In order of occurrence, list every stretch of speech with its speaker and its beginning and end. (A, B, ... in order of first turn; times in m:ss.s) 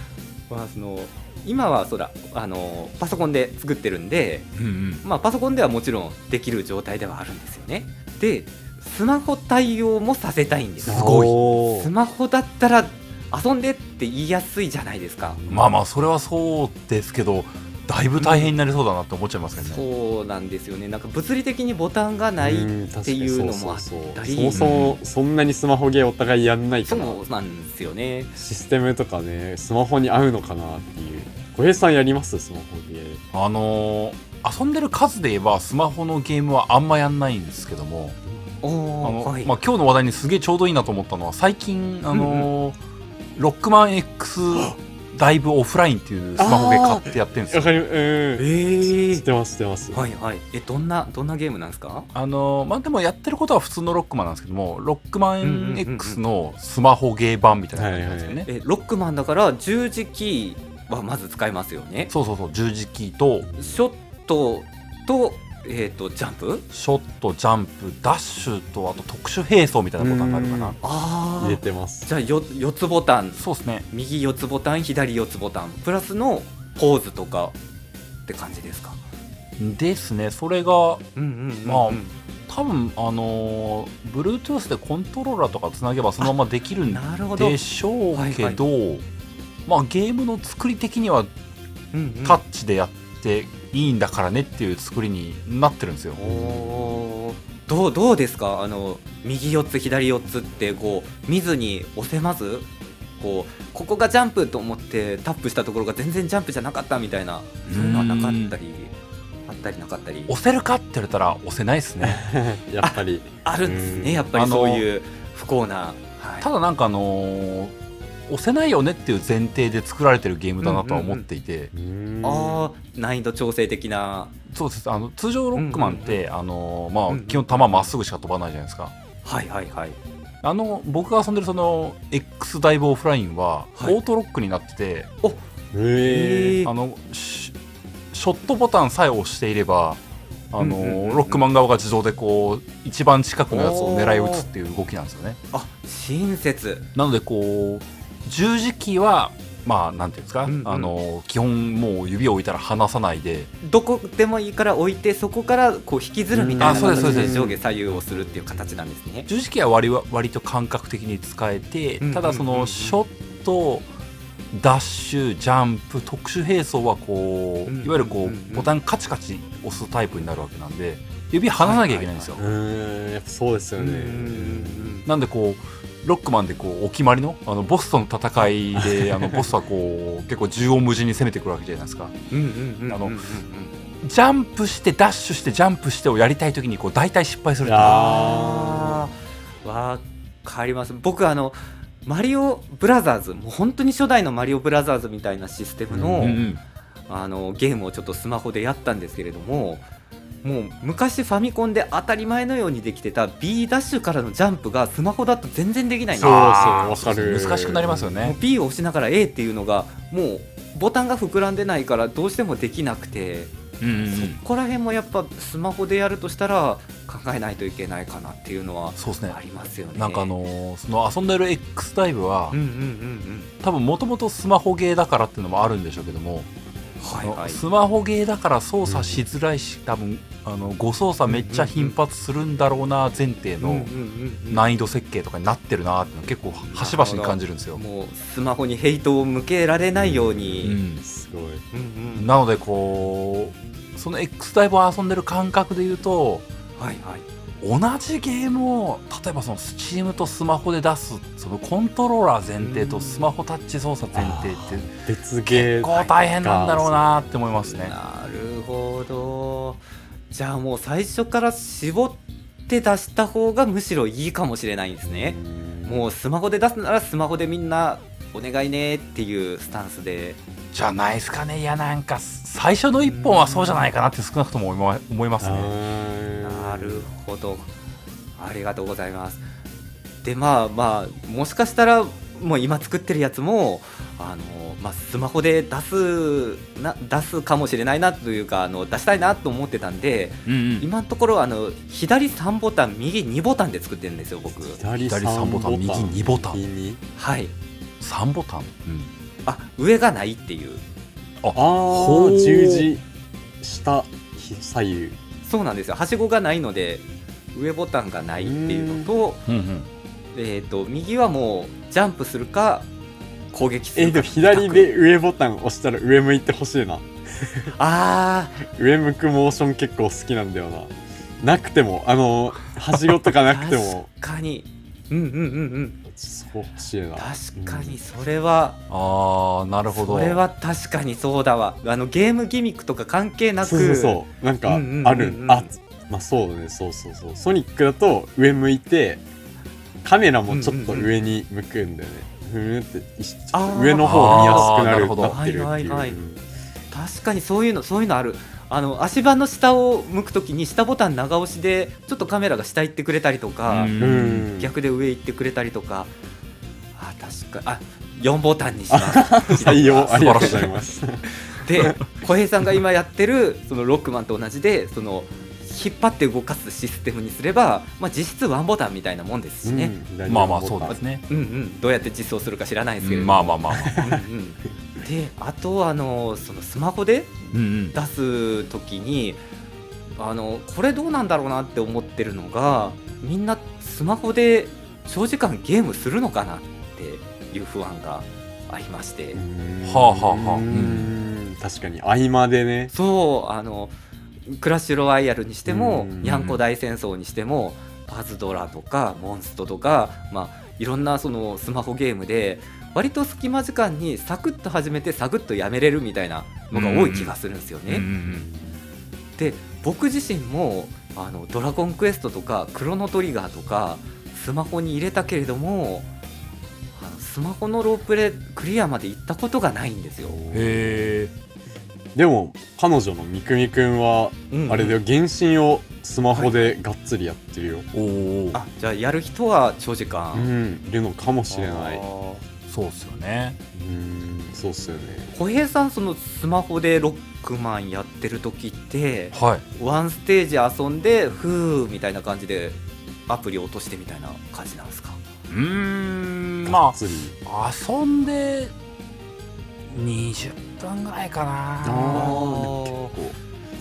0:00.5-0:04.5 A
0:04.6-0:05.0 B
0:05.0-0:15.4 A
0:10.8-0:11.9 C
0:10.8-0:11.6 B
0:15.3-0:15.8 C
0:15.5-0:19.8 B
0:18.2-0:18.5 A
0:19.6-0:24.7 A
0:22.4-0:27.2 C
0:24.5-0:25.0 B
0:26.9-0:28.3 A
0:28.4-0:33.2 C
0:33.3-0:38.2 B
0:38.6-0:39.5 A
0:39.0-0:42.8 B
0:42.1-0:42.5 A
0:43.4-0:47.7 B
0:46.4-0:50.1 C
0:48.4-0:49.2 A
0:49.9-0:52.1 A
0:52.1-0:58.5 B
0:55.4-0:56.2 A
0:57.7-0:58.4 C
0:58.4-1:02.1 A
1:02.1-1:03.5 B
1:03.4-1:03.8 C
1:03.6-1:06.6 A
1:06.7-1:10.8 B
1:10.0-1:10.8 C
1:10.8-1:17.6 A
1:11.4-1:12.1 C
1:13.4-1:13.8 B
1:18.2-1:19.0 A
1:19.6-1:21.0 B
1:21.2-1:22.1 A
1:21.6-1:29.0 B
1:26.8-1:27.6 A
1:28.1-1:28.6 A
1:29.6-1:31.3 B
1:31.9-1:32.4 A
1:32.2-1:36.2 B
1:36.2-1:48.9 A
1:36.2-1:37.0 C
1:47.6-1:48.6 B
1:49.5-1:50.3 A
1:50.3-1:52.2 B
1:52.0-1:54.3 C
1:52.8-1:56.5 A
1:54.3-1:54.8 B
1:56.4-1:57.7 B
1:58.3-2:01.7 B
2:00.6-2:01.2 A
2:01.7-2:02.7 C
2:02.2-2:04.3 A
2:04.5-2:08.9 B
2:05.5-2:06.2 A
2:07.1-2:07.9 A
2:09.2-2:10.0 A
2:10.4-2:15.1 B
2:15.7-2:16.6 C
2:16.0-2:16.7 A
2:16.6-2:17.5 B
2:18.1-2:25.4 B
2:20.6-2:21.4 A
2:23.5-2:24.5 A
2:25.5-2:26.8 A
2:26.9-2:33.5 B
2:30.4-2:30.9 A
2:33.6-2:39.3 A
2:36.3-2:38.4 C
2:36.6-2:37.5 B
2:39.3-2:43.9 B
2:42.0-2:43.0 A
2:44.5-2:52.4 B
2:47.6-2:48.7 A
2:51.6-2:52.4 A
2:52.4-2:55.0 C
2:53.8-2:55.0 A
2:55.0-3:02.1 B
2:58.8-2:59.5 C
3:02.3-3:03.7 A
3:02.9-3:03.2 B
3:04.0-3:08.2 B
3:07.6-3:09.0 C
3:07.8-3:16.4 A
3:15.9-3:16.4 C
3:16.2-3:16.6 B
3:17.1-3:19.9 A
3:20.4-3:26.9 A
3:26.2-3:28.2 C
3:26.2-3:28.4 B
3:28.2-3:33.5 A
3:33.8-3:34.4 B
3:34.0-3:40.3 A
3:39.0-3:39.4 B
3:40.0-3:42.6 B
3:42.5-3:43.5 A
3:43.6-3:46.5 B
3:47.0-3:47.6 A
3:47.2-3:53.9 B
3:48.8-3:49.2 C
3:51.3-3:51.9 A
3:53.6-3:54.6 A
3:54.5-3:57.8 B
3:56.6-4:00.8 A
4:00.0-4:01.6 C
4:00.6-4:01.0 B
4:01.7-4:02.3 A
4:02.2-4:06.5 B
4:06.8-4:07.2 A
4:07.6-4:14.9 B
4:12.6-4:13.3 A
4:14.1-4:17.3 C
4:15.5-4:17.9 B
4:17.6-4:30.4 A
4:25.0-4:26.1 C
4:30.7-4:35.7 B
4:33.0-4:33.8 A
4:35.4-4:37.1 C
4:36.4-4:37.7 A
4:38.4-4:39.4 A
4:40.2-4:54.8 A
4:50.4-4:50.9 B
4:54.5-4:57.0 C
4:55.0-4:56.6 B
4:57.2-4:57.5 A
4:58.0-4:59.1 B
4:59.4-5:00.8 A
5:01.4-5:02.9 B
5:01.5-5:03.0 C
5:03.6-5:05.2 C
5:05.4-5:09.4 A
5:08.4-5:09.1 C
5:09.5-5:09.9 B
5:10.3-5:12.9 A
5:13.5-5:14.9 A
5:14.0-5:17.7 C
5:17.7-5:18.6 A
5:18.7-5:24.1 C
5:23.4-5:26.0 A
5:26.1-5:28.0 C
5:27.2-5:28.8 A
5:28.9-5:30.4 B
5:29.9-5:35.7 A
5:33.6-5:39.2 C
5:40.0-5:46.4 C
5:40.5-5:41.1 A
5:43.5-5:46.2 A
5:44.0-5:45.4 B
5:46.9-5:54.0 A
5:53.7-5:54.5 B
5:54.0-5:54.7 C
5:54.6-5:56.1 A
5:56.9-6:00.7 A
5:58.9-6:02.0 C
6:00.1-6:00.7 B
6:01.5-6:09.9 A
6:09.6-6:11.0 C
6:10.2-6:11.2 B
6:10.8-6:19.4 A
6:13.0-6:14.1 B
6:13.8-6:14.2 C
6:17.5-6:18.0 B
6:20.2-6:29.4 A
6:29.3-6:32.9 C
6:29.8-6:31.1 B
6:32.9-6:33.9 A
6:34.5-6:48.1 A
6:35.7-6:36.4 C
6:36.2-6:36.6 B
6:46.7-6:47.3 B
6:47.9-6:48.5 B
6:48.2-6:48.8 C
6:49.4-6:56.1 A
6:57.0-7:00.4 A
7:00.2-7:01.1 C
7:00.5-7:01.3 B
7:02.1-7:07.9 C
7:04.5-7:05.0 A
7:06.3-7:06.7 A
7:07.9-7:08.6 B
7:08.5-7:10.5 A
7:10.3-7:12.0 C
7:11.5-7:12.4 A
7:12.7-7:13.6 B
7:13.7-7:15.3 C
7:15.3-7:25.2 A
7:19.3-7:19.6 B
7:25.5-7:28.7 B
7:26.6-7:27.4 C
7:29.9-7:32.5 B
7:31.8-7:33.2 C
7:32.1-7:33.1 A